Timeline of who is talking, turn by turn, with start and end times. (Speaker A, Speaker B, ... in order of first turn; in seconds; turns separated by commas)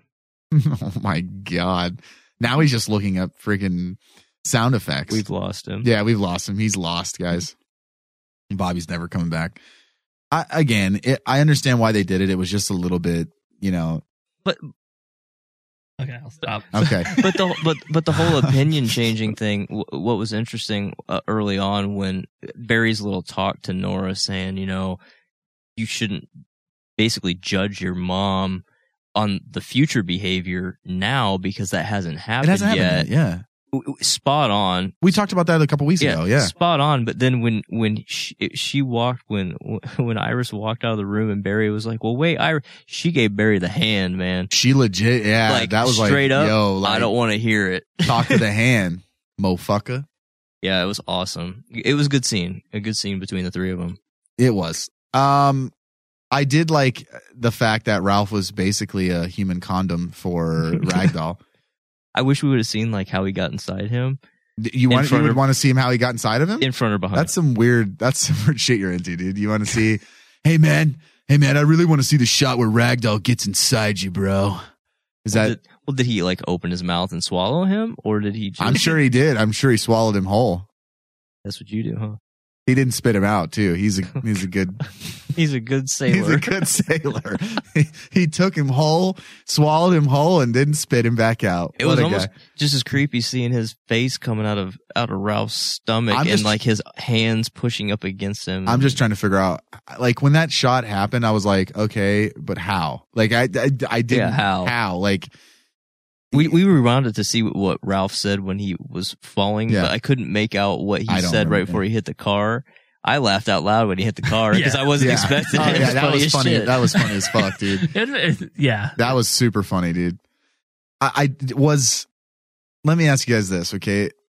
Speaker A: 0.5-5.2, Speaker B: 5.1-5.9, Speaker A: 5.8-7.5, Speaker A: 8.5-9.6, Speaker A: 10.3-14.0, Speaker C: 16.0-17.3, Speaker A: 16.7-17.2, Speaker B: 17.2-25.0, Speaker A: 18.1-18.5, Speaker B: 25.8-26.3, Speaker B: 27.0-28.6, Speaker B: 29.1-33.1, Speaker A: 32.4-33.4, Speaker B: 33.7-35.0, Speaker A: 35.0-36.5, Speaker B: 36.0-44.5, Speaker A: 44.5-47.1, Speaker B: 45.5-48.4, Speaker A: 48.1-50.1, Speaker B: 50.6-54.0, Speaker A: 54.4-55.7, Speaker A: 56.3-61.4, Speaker B: 62.1-64.2, Speaker A: 64.6-74.6, Speaker B: 64.9-65.4, Speaker B: 66.6-67.3, Speaker A: 75.2-75.6, Speaker B: 75.3-79.0, Speaker A: 78.6-80.7, Speaker B: 81.5-82.2, Speaker A: 82.7-84.9, Speaker B: 85.3-86.5, Speaker A: 86.1-92.3, Speaker B: 91.8-99.0, Speaker A: 96.1-96.6, Speaker A: 98.7-105.3, Speaker B: 104.1-104.7, Speaker A: 106.3-106.6, Speaker B: 106.3-117.0, Speaker A: 109.7-109.9, Speaker A: 111.1-111.8, Speaker C: 114.5-115.9, Speaker A: 115.0-117.9, Speaker C: 117.8-119.0, Speaker A: 119.0-120.2, Speaker A: 121.0-122.1, Speaker A: 122.8-124.1